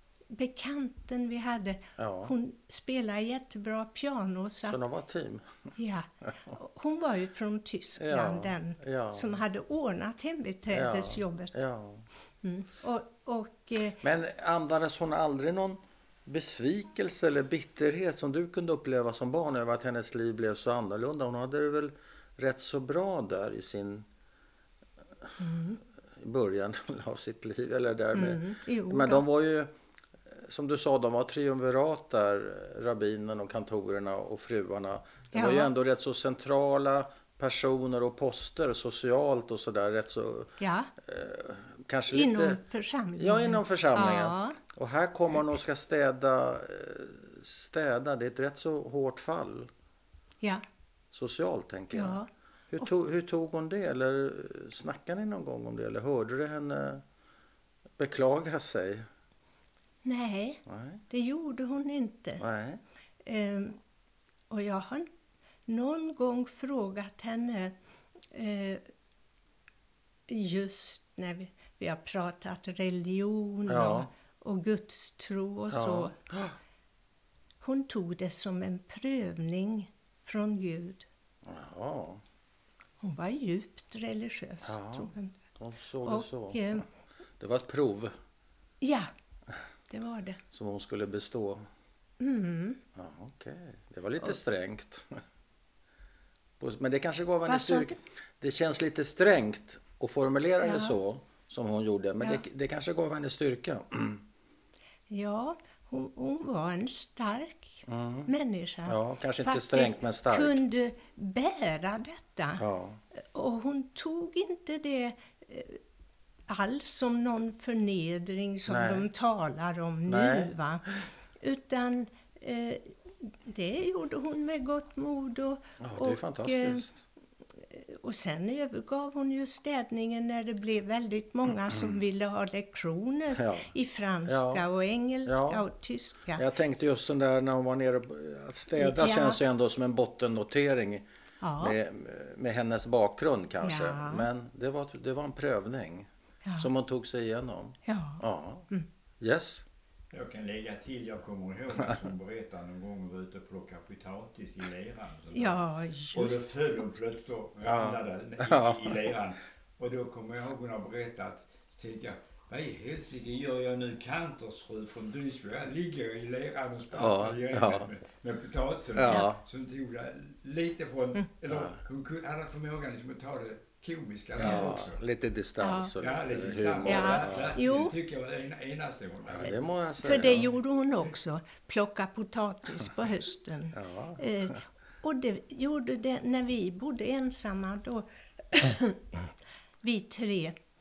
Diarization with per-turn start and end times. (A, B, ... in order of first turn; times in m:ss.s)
0:00.3-0:04.8 A
0:02.0-0:02.3 B
0:04.7-0:05.5 B
0:05.8-0:11.6 A
0:08.0-0:09.4 B
0:10.7-0:12.0 B
0:12.4-0:14.0 A
0:14.0-0:24.1 B
0:25.4-0:25.8 A
0:26.2-0:29.7 B
0:28.1-0:29.2 A
0:30.3-0:42.6 B
0:35.3-0:35.7 A
0:40.6-0:40.9 A
0:42.1-0:44.6 A
0:43.2-0:49.7 B
0:51.1-0:57.0 B
0:51.9-0:52.3 A
0:58.0-0:59.1 B
1:00.0-1:02.4 A
1:00.7-1:01.0 B
1:02.4-1:02.8 B
1:03.2-1:03.8 A
1:04.5-1:05.1 A
1:05.7-1:07.7 A
1:08.3-1:08.9 A
1:10.3-1:16.1 A
1:13.7-1:14.1 B
1:15.7-1:16.6 B
1:17.6-1:21.0 A
1:21.4-1:22.2 B
1:23.0-1:25.4 A
1:24.6-1:26.8 B
1:26.0-1:26.8 A
1:27.4-1:28.1 B
1:28.8-1:29.1 A
1:29.9-1:30.4 A
1:30.5-1:31.6 B
1:32.2-1:32.8 A
1:32.9-1:35.2 B
1:36.6-1:44.2 B
1:37.5-1:38.0 A
1:40.6-1:40.9 A
1:45.1-1:52.6 A
1:47.9-1:48.3 B
1:48.8-1:50.6 B
1:52.6-1:53.0 B
1:53.1-1:55.8 A
1:56.5-2:06.9 A
1:58.7-1:59.0 B
2:00.1-2:00.5 B
2:05.8-2:07.0 B
2:07.6-2:16.4 A
2:13.4-2:13.7 B
2:14.2-2:14.6 B
2:15.2-2:15.6 B
2:16.3-2:21.0 B
2:18.7-2:19.4 A
2:21.4-2:21.8 A
2:21.6-2:28.7 B
2:23.6-2:24.3 A
2:27.8-2:28.9 A
2:29.2-2:29.6 B
2:30.1-2:55.0 C
2:35.3-2:36.4 A
2:37.6-2:39.0 B
2:46.9-2:47.9 B
2:48.9-2:49.4 B
2:51.5-2:51.8 B
2:54.4-2:57.6 B
2:55.6-2:55.9 A
2:56.0-2:59.7 C
2:56.8-2:57.9 A
2:59.3-3:00.5 B
3:00.0-3:09.3 A
3:03.7-3:04.6 B
3:09.8-3:10.6 A